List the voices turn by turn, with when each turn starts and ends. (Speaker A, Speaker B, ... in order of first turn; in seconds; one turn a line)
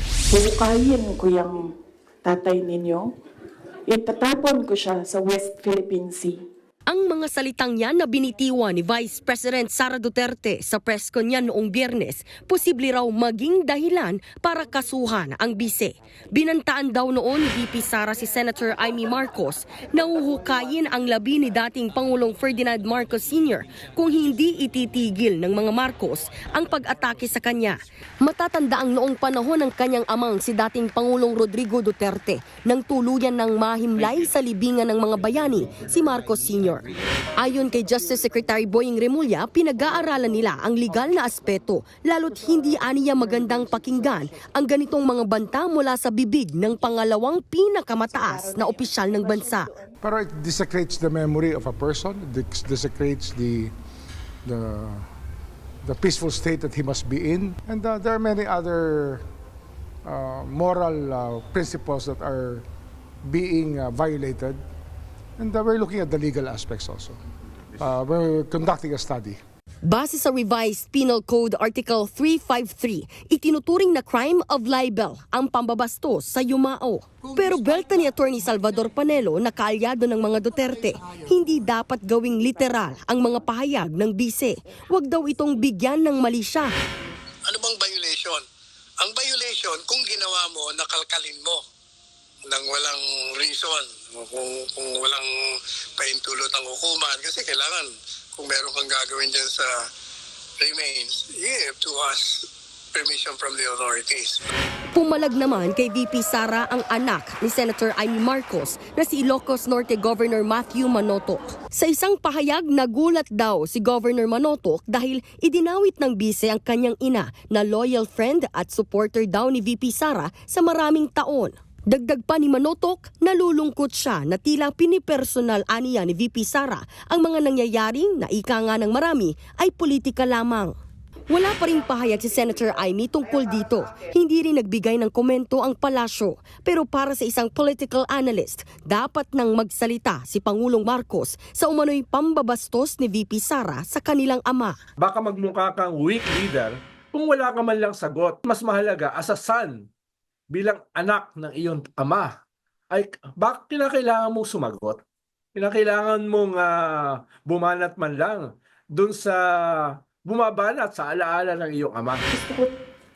Speaker A: 0.3-1.6
Speaker A: 2.2-3.1
Speaker A: 3.9-6.4
Speaker B: 6.9-49.8
Speaker A: 48.3-49.9
Speaker C: 50.0-53.7
Speaker C: 54.4-55.0
Speaker C: 55.8-59.2
Speaker C: 60.0-62.6
Speaker C: 63.2-64.6
Speaker C: 65.4-67.2
Speaker C: 67.8-69.4
Speaker B: 69.8-86.7
Speaker D: 87.4-88.5
Speaker D: 89.0-91.6
Speaker D: 92.4-99.9
Speaker D: 100.6-104.5
Speaker B: 104.9-130.7
Speaker B: 131.3-144.8
Speaker E: 145.0-149.9
Speaker E: 150.5-155.0
Speaker E: 155.5-162.3
Speaker A: 162.3-162.7